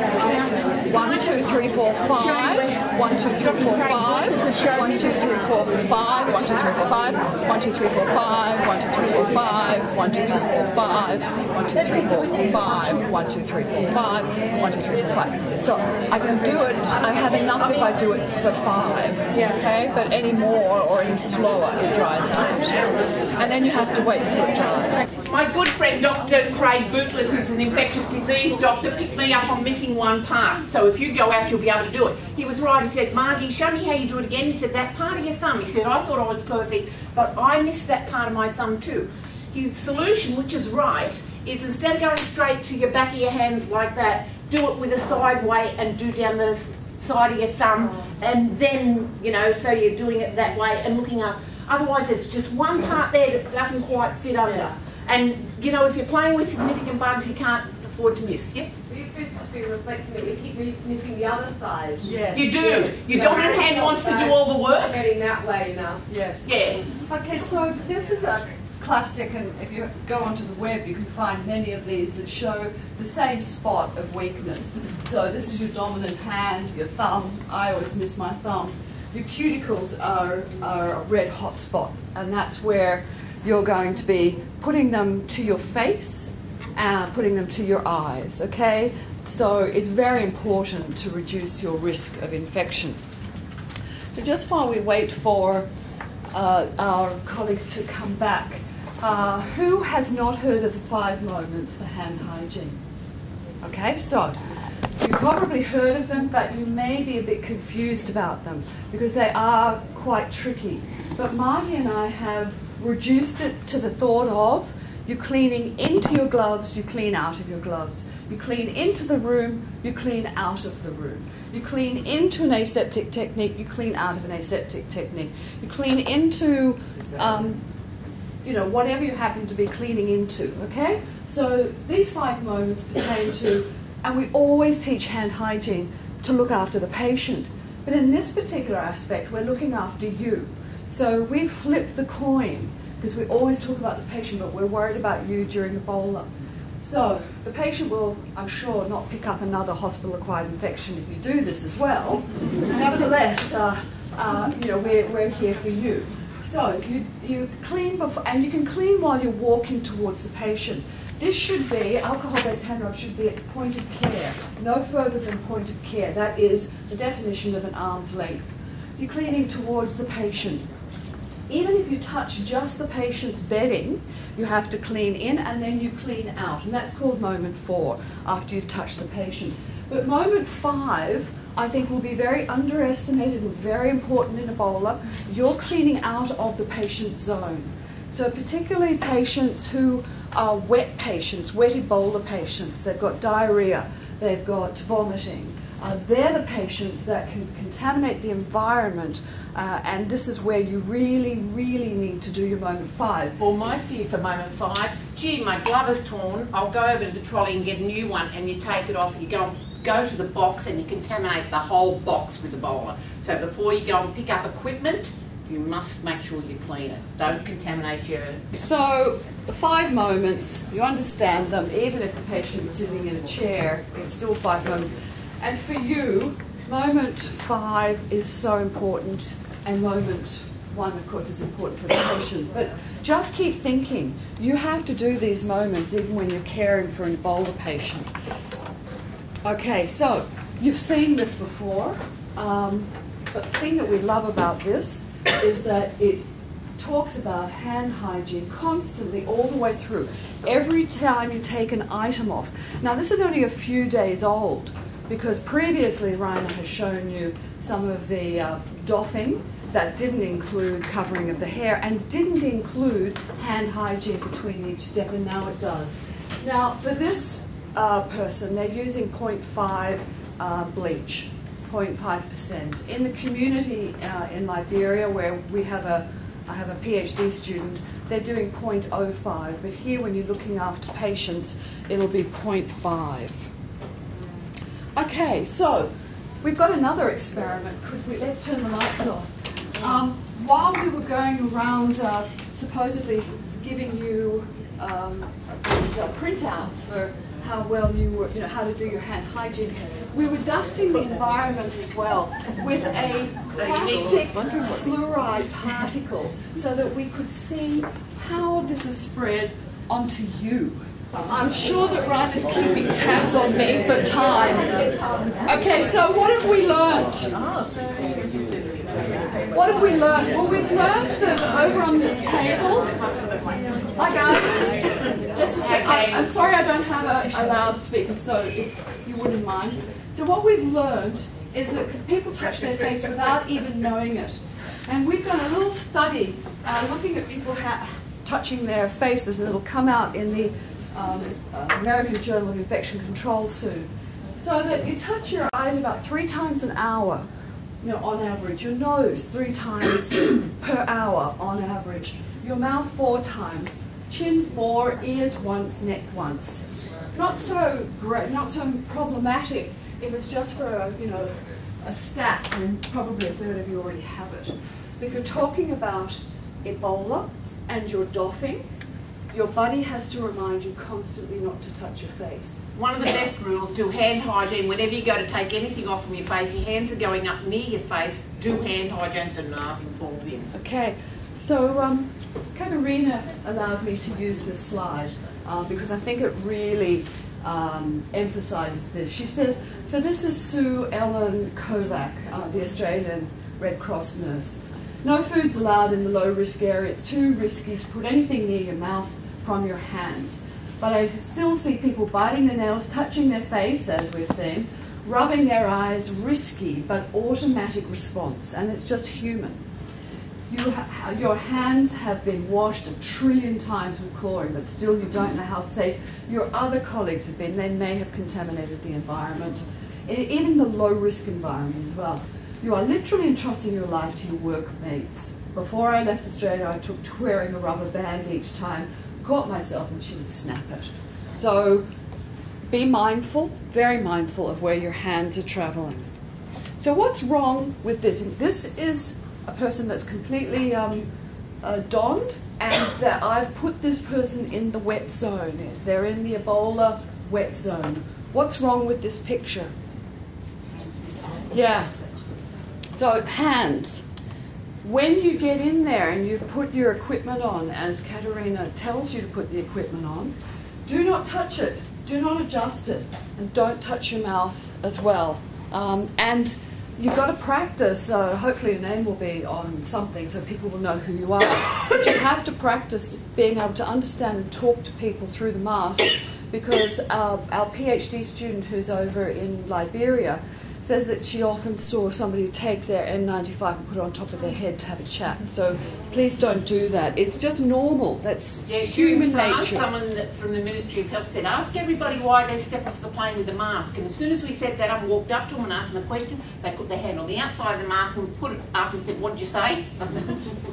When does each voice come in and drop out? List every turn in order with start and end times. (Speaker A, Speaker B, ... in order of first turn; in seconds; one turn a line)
Speaker A: 0.8-25.0
Speaker B: 2.1-5.4
Speaker B: 25.3-58.7
Speaker A: 54.4-54.8
Speaker C: 58.9-66.0
Speaker A: 62.0-63.6
Speaker B: 62.3-65.0
Speaker A: 66.1-66.5
Speaker B: 66.5-66.8
Speaker A: 67.1-93.0
Speaker A: 94.1-95.7
Speaker A: 96.3-102.8
Speaker A: 103.6-104.4
Speaker A: 105.0-127.6
Speaker A: 128.4-146.3
Speaker A: 146.8-170.7
Speaker A: 171.5-203.4
Speaker B: 203.4-218.5
Speaker A: 218.5-238.1
Speaker A: 239.4-246.2
Speaker A: 246.8-283.5
Speaker A: 285.0-285.9
Speaker A: 286.4-314.9
Speaker B: 303.5-304.4
Speaker A: 315.4-317.4
Speaker A: 319.5-323.0
Speaker A: 324.0-347.2
Speaker B: 325.6-326.3
Speaker A: 347.8-368.6
Speaker A: 369.3-372.7
Speaker B: 372.8-380.5
Speaker A: 380.5-409.6
Speaker A: 410.5-431.9
Speaker A: 432.7-436.1
Speaker A: 436.8-441.1
Speaker A: 441.6-449.7
Speaker A: 451.5-451.9
Speaker A: 452.9-454.1
Speaker A: 454.8-460.3
Speaker A: 460.9-489.9
Speaker B: 488.7-500.0